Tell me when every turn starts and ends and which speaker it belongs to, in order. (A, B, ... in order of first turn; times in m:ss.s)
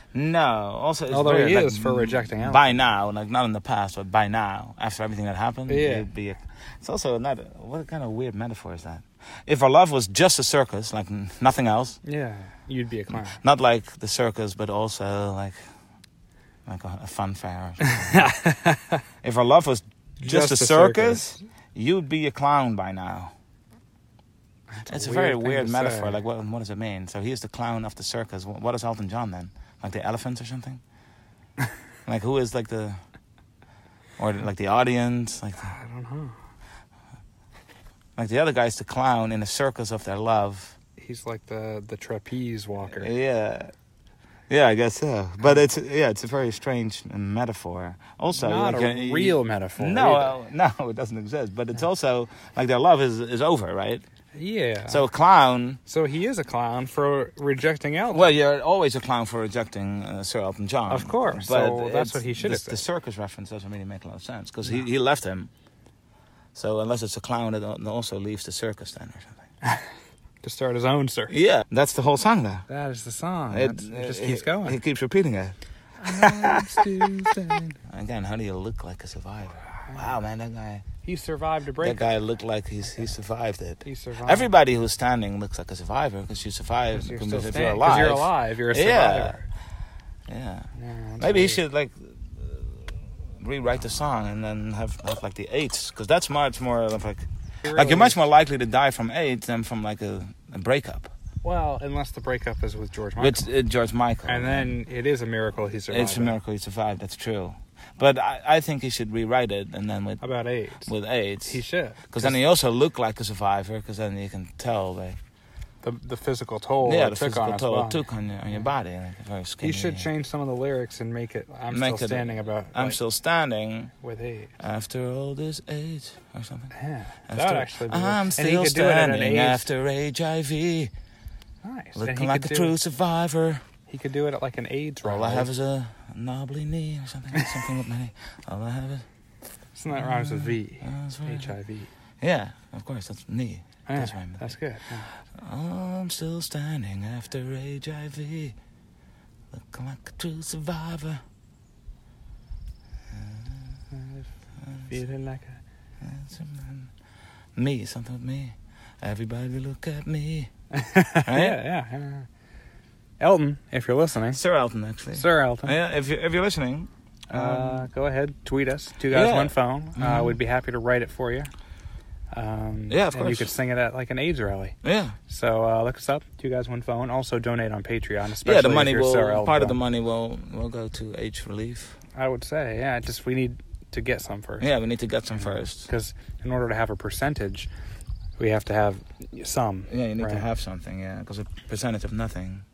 0:00.1-0:12.0 A
0:01.1-0:02.8 B
0:05.7-0:06.1 B
0:12.0-0:13.4 B
0:13.2-0:15.6 A
0:16.7-0:18.3 A
0:17.8-0:19.0 B
0:19.2-0:23.3 A
0:20.2-0:21.4 B
0:24.8-0:26.2 B
0:24.9-0:30.8 A
0:32.1-0:33.0 A
0:34.2-0:35.8 A
0:35.6-0:36.4 B
0:38.2-0:40.8 A
0:41.0-0:43.1 B
0:43.0-0:43.7 A
0:44.5-0:54.0 A
0:48.4-0:50.4 B
0:54.4-0:55.1 B
0:54.9-0:55.8 A
0:55.8-0:58.3 B
0:58.1-1:05.5 A
1:00.9-1:02.8 B
1:06.5-1:09.4 A
1:09.6-1:09.9 B
1:10.4-1:11.3 B
1:11.3-1:12.7 A
1:12.7-1:14.8 B
1:13.5-1:17.2 A
1:16.0-1:17.8 B
1:17.9-1:20.9 A
1:19.8-1:20.1 B
1:21.0-1:22.0 B
1:21.8-1:29.4 A
1:23.8-1:24.5 B
1:26.9-1:29.4 B
1:30.3-1:30.7 A
1:30.7-1:31.6 B
1:31.2-1:41.1 A
1:37.6-1:38.2 B
1:41.4-1:43.5 B
1:43.2-1:44.8 A
1:44.3-1:46.4 B
1:45.9-1:50.2 A
1:50.2-1:50.9 B
1:50.8-1:55.2 A
1:51.5-1:52.4 B
1:55.8-1:58.1 B
1:56.8-2:00.1 A
1:59.6-2:03.0 B
2:01.7-2:03.9 A
2:04.0-2:04.5 B
2:04.6-2:06.7 A
2:06.7-2:09.7 B
2:07.3-2:10.9 A
2:11.6-2:12.8 B
2:12.0-2:13.6 A
2:13.9-2:15.5 B
2:15.0-2:19.0 A
2:19.8-2:21.9 B
2:19.9-2:21.5 A
2:22.2-2:24.6 A
2:23.9-2:25.1 B
2:25.4-2:28.6 A
2:29.5-2:31.2 A
2:33.1-2:33.8 A
2:34.6-2:34.9 A
2:34.9-2:35.6 B
2:36.0-2:36.9 A
2:37.6-2:40.5 A
2:40.7-2:42.3 B
2:41.2-2:41.6 A
2:43.2-2:44.4 B
2:44.3-2:47.9 A
2:45.1-2:45.8 B
2:47.3-2:51.5 B
2:49.1-2:50.4 A
2:52.3-2:54.8 B
2:52.9-2:53.5 A
2:54.8-2:55.2 A
2:55.3-2:59.8 B
2:58.4-3:02.0 A
3:02.2-3:04.7 B
3:04.6-3:05.9 A
3:05.3-3:07.7 B
3:08.4-3:10.5 B
3:09.9-3:12.6 A